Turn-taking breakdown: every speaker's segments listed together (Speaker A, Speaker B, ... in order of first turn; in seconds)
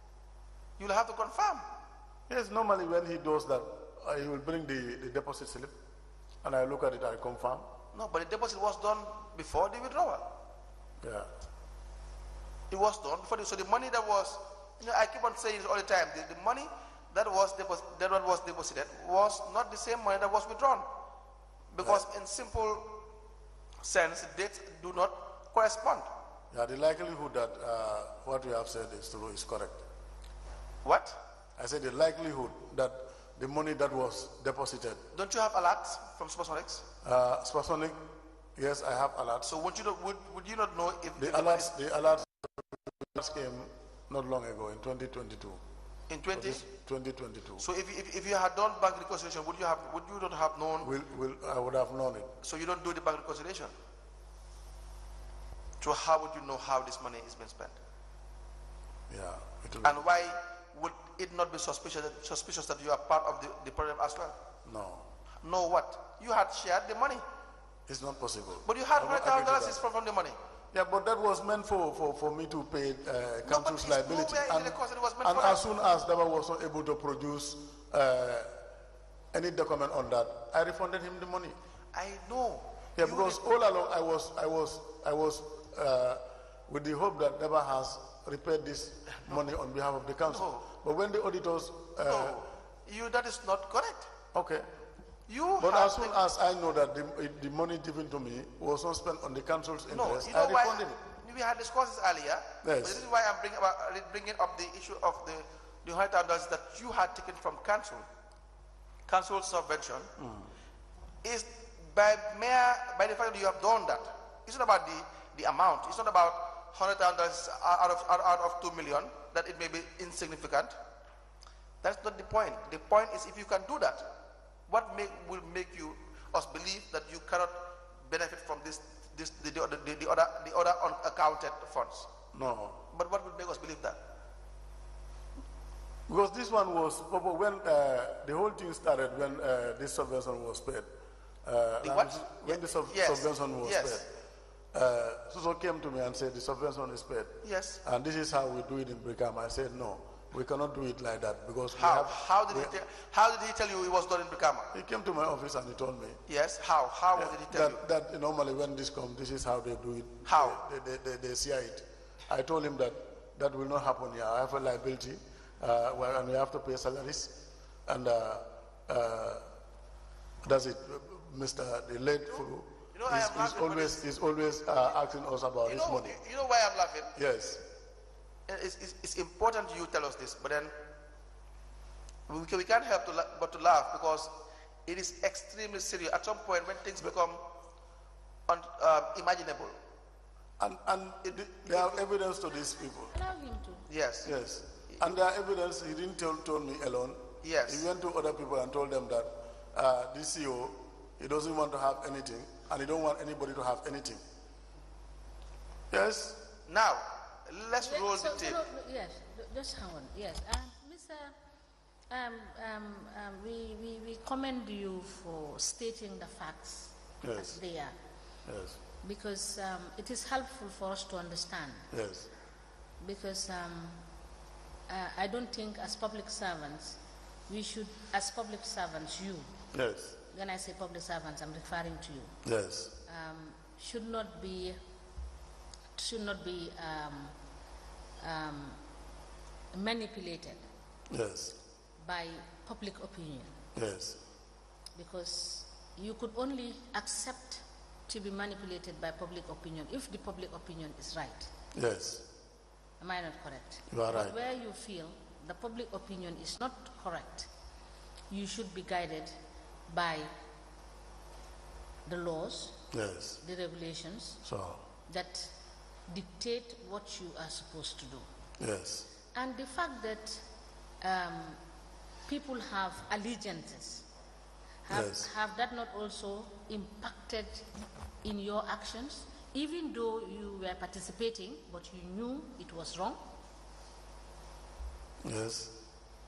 Speaker A: 0.8-1.7, 7.9-10.2, 12.7-20.9, 21.7-23.0, 23.8-26.1, 30.8-31.2, 35.1-36.8, 39.4-41.7, 46.1-46.7, 47.6-50.9, 52.4-53.7, 55.8-57.8, 59.8-64.4, 65.4-67.2, 68.6-70.4, 73.4-75.6, 81.9-83.4, 90.3-90.7, 92.0-94.1, 95.3-96.2, 99.9-108.0, 109.1-110.1, 111.2-120.8, 121.8-124.0, 124.7-132.1, 132.9-134.0, 141.8-144.0, 147.4-147.8, 151.7-154.7, 156.3-157.8, 160.3-160.6, 172.9-174.0, 175.6-177.2, 178.5-180.7, 182.3-184.3, 184.9-187.4, 188.5-189.8, 191.2-192.1, 193.9-194.3, 197.4-197.8, 206.7-208.6
Speaker B: 2.3-5.7, 6.4-7.7, 11.0-11.3, 26.5-29.8, 31.6-35.0, 37.0-38.0, 38.5-39.5, 41.2-45.6, 46.3-47.7, 50.8-52.3, 59.1-60.0, 64.7-65.0, 67.9-69.8, 70.7-78.5, 79.3-81.6, 83.0-92.4, 94.3-94.7, 95.6-101.0, 102.6-103.0, 110.2-110.5, 132.3-132.8, 136.1-140.9, 141.4-144.1, 144.7-152.7, 154.7-156.2, 157.2-169.5, 170.4-176.2, 177.2-177.6, 190.6-193.2, 194.2-204.2, 205.9-206.4, 217.2-217.6, 218.5-218.8, 221.9-222.3, 229.7-230.2, 232.4-232.9, 241.1-241.6, 243.8-244.2, 251.7-252.2, 253.9-254.3, 262.9-263.4, 264.5-264.8, 268.6-269.1, 274.9-275.3, 285.2-285.7
Speaker C: 193.1-193.9, 207.8-211.3, 212.1-217.9, 219.0-221.9, 223.0-224.0, 224.9-229.5, 230.3-232.3, 233.1-234.8, 236.0-237.3, 238.2-238.8, 239.7-240.6, 242.0-243.5, 245.0-251.5, 253.0-257.5, 258.3-259.3, 259.9-260.3, 262.1-262.8, 263.4-264.4, 265.1-265.5, 266.1-268.2, 269.3-270.4, 271.0-271.6, 272.2-274.1, 274.9-277.6, 278.2-283.2